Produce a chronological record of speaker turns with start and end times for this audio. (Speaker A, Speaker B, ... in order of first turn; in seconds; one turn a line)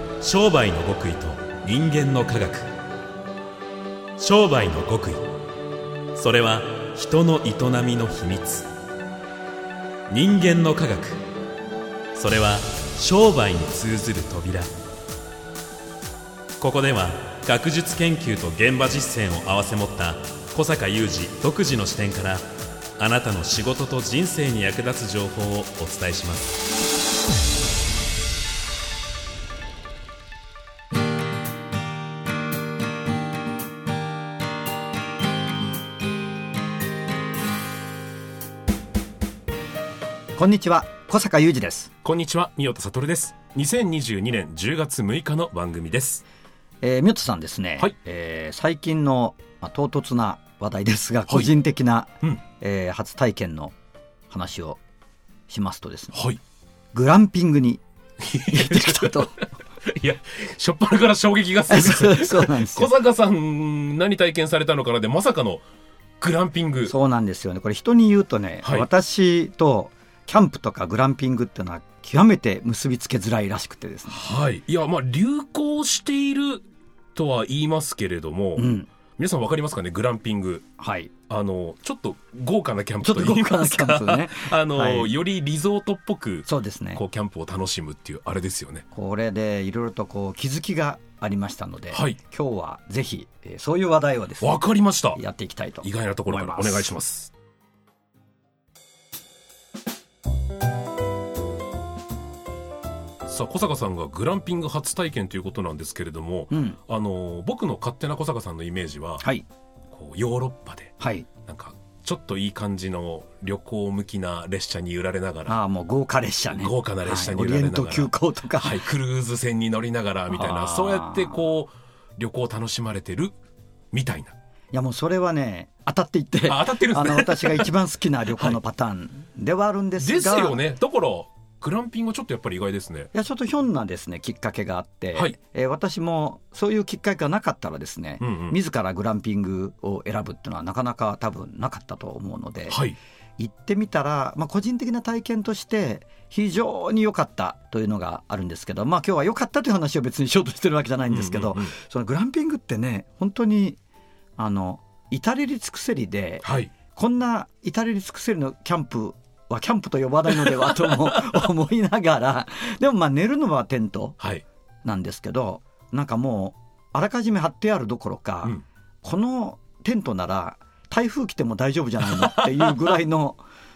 Speaker A: 0.2-2.7
Speaker B: 0.2-2.4
Speaker A: 4.2-5.2
Speaker B: 4.3-5.0
Speaker A: 6.2-8.7
Speaker B: 7.6-8.4
Speaker A: 10.1-11.2
Speaker B: 10.2-10.5
Speaker A: 12.2-14.7
Speaker B: 13.3-14.5
Speaker A: 16.6-22.4
Speaker B: 19.5-20.0
Speaker B: 21.6-22.0
Speaker A: 23.0-26.6
Speaker C: 40.4-41.9
Speaker B: 42.0-46.2
Speaker C: 46.8-53.7
Speaker B: 51.3-51.5
Speaker C: 54.3-54.8
Speaker C: 55.5-56.2
Speaker B: 56.1-56.4
Speaker C: 56.9-57.8
Speaker B: 58.2-65.6
Speaker C: 58.5-59.4
Speaker C: 61.7-62.9
Speaker B: 66.2-67.0
Speaker C: 66.9-74.2
Speaker B: 68.6-68.9
Speaker B: 74.1-80.7
Speaker C: 78.6-78.9
Speaker C: 80.8-81.1
Speaker B: 81.3-88.8
Speaker C: 83.0-85.1
Speaker C: 86.5-87.0
Speaker C: 88.9-94.6
Speaker B: 91.9-92.2
Speaker B: 94.4-95.2
Speaker C: 95.2-96.9
Speaker B: 95.8-97.3
Speaker B: 103.2-109.3
Speaker C: 106.5-106.8
Speaker C: 109.2-109.5
Speaker B: 109.9-110.9
Speaker C: 111.0-111.3
Speaker B: 111.5-115.6
Speaker C: 115.5-118.8
Speaker B: 116.5-123.3
Speaker C: 120.3-121.4
Speaker B: 123.9-124.3
Speaker C: 124.7-130.6
Speaker B: 126.5-127.7
Speaker B: 128.3-128.6
Speaker B: 130.0-133.1
Speaker C: 133.1-142.8
Speaker B: 138.2-138.6
Speaker B: 142.7-143.0
Speaker C: 143.4-153.8
Speaker B: 151.1-151.7
Speaker C: 154.4-164.2
Speaker B: 156.4-156.7
Speaker B: 160.3-161.4
Speaker C: 164.8-173.4
Speaker B: 172.0-173.0